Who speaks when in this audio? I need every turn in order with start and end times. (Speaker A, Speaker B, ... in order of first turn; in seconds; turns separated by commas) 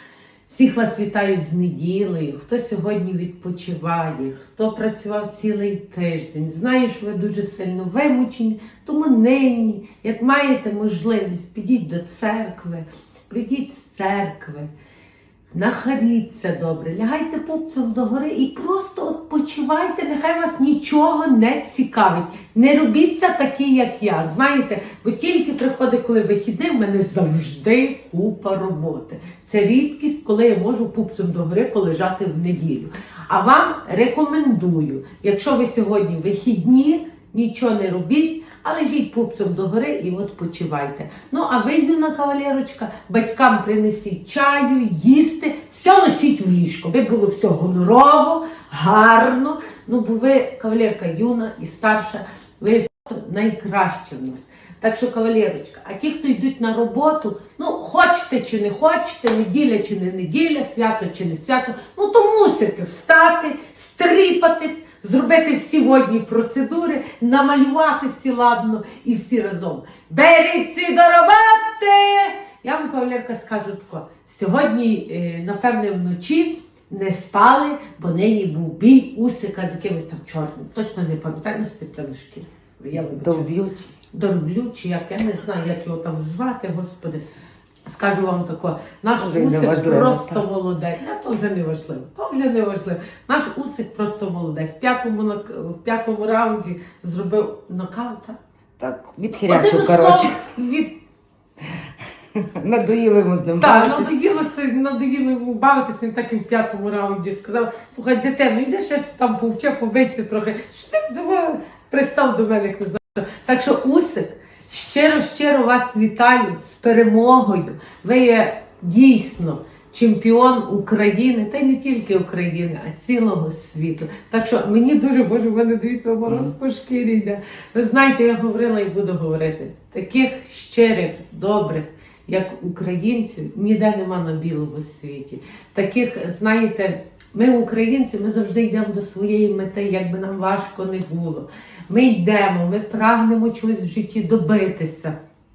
Speaker A: 0.5-14.7, Speaker A: 15.5-83.5, Speaker B: 83.1-83.9, Speaker A: 84.1-87.2, Speaker A: 87.9-98.4, Speaker B: 89.2-90.4, Speaker B: 98.8-100.4, Speaker A: 99.4-101.0, Speaker B: 101.7-104.1, Speaker A: 103.6-145.2